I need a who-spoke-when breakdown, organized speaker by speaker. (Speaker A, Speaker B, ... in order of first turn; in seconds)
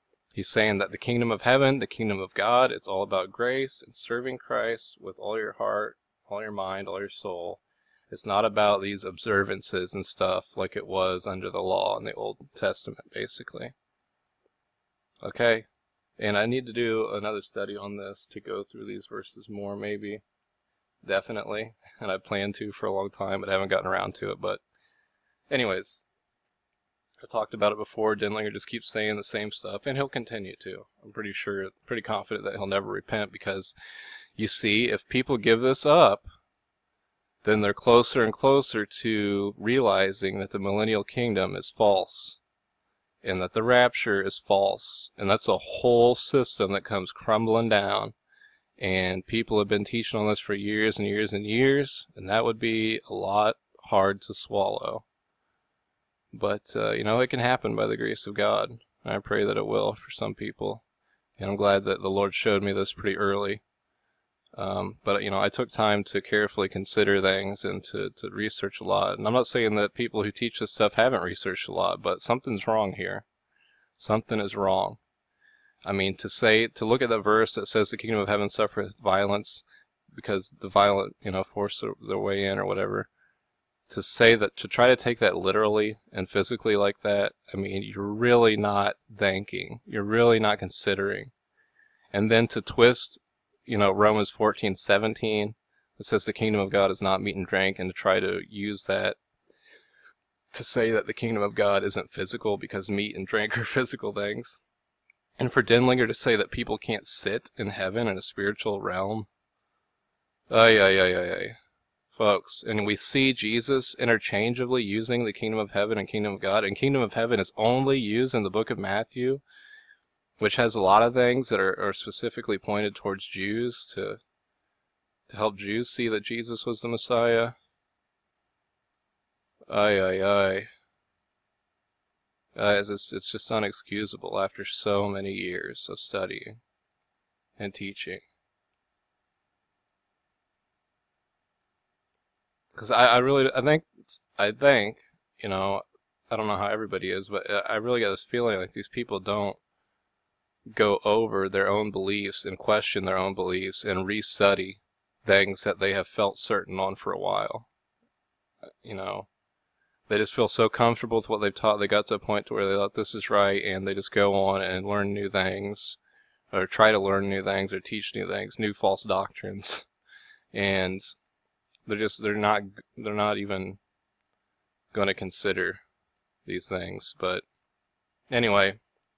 Speaker A: 0.3-13.7, 15.2-15.7, 16.2-20.2, 21.0-24.6, 25.5-26.0, 27.2-33.7, 34.4-36.3, 37.4-42.4, 43.2-48.1, 48.8-55.0, 56.3-60.8, 61.4-63.6, 64.5-73.2, 74.0-75.0, 75.8-83.1, 83.9-91.3, 92.1-99.2, 100.5-104.6, 105.4-109.3, 110.5-111.5, 112.1-119.4, 120.4-124.2, 125.3-127.5, 129.7-130.7, 132.5-136.6, 137.6-138.2, 142.7-149.6, 150.7-157.7, 158.8-159.3, 160.1-166.0, 166.5-169.9, 170.5-171.0, 171.9-173.8, 174.9-175.8, 176.4-177.4, 178.3-178.8